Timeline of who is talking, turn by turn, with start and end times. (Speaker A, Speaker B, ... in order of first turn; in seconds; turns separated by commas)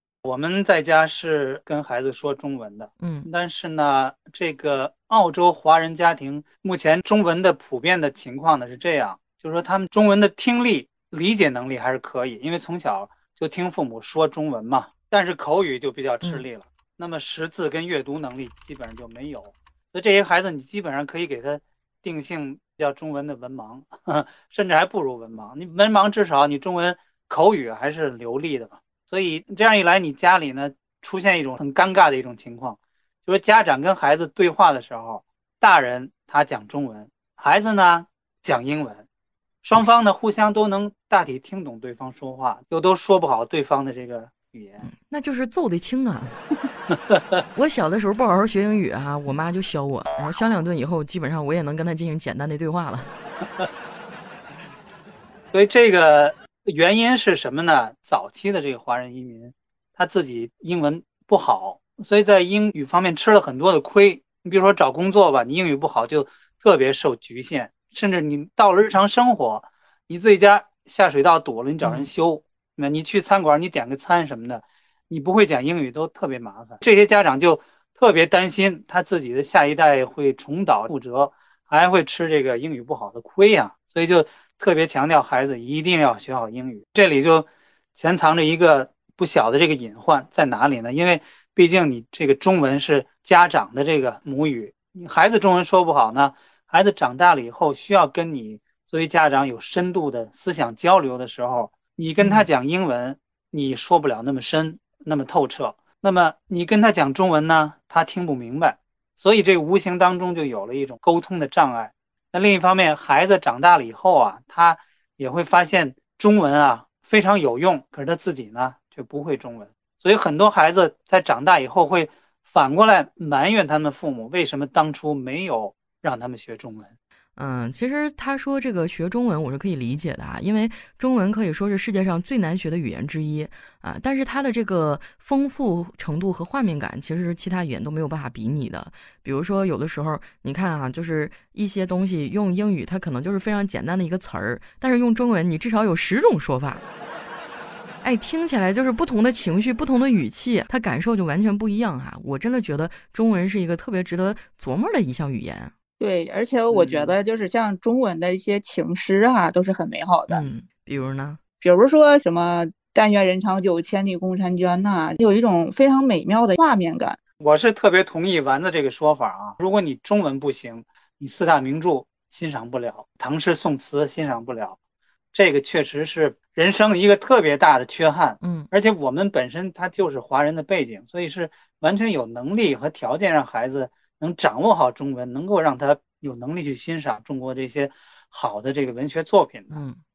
Speaker A: 0.2-39.0, Speaker B: 3.0-3.3, Speaker A: 39.6-44.9, Speaker B: 44.8-46.4, Speaker A: 46.9-47.4, Speaker B: 47.5-53.1, Speaker A: 55.5-126.9, Speaker B: 71.8-72.1, Speaker B: 102.2-102.5, Speaker B: 127.4-146.8, Speaker B: 148.0-155.7, Speaker C: 156.0-160.4, Speaker B: 156.8-157.1, Speaker B: 160.3-161.4, Speaker C: 161.6-167.2, Speaker A: 167.4-174.8, Speaker A: 175.3-189.8, Speaker B: 178.4-178.7, Speaker B: 189.7-190.0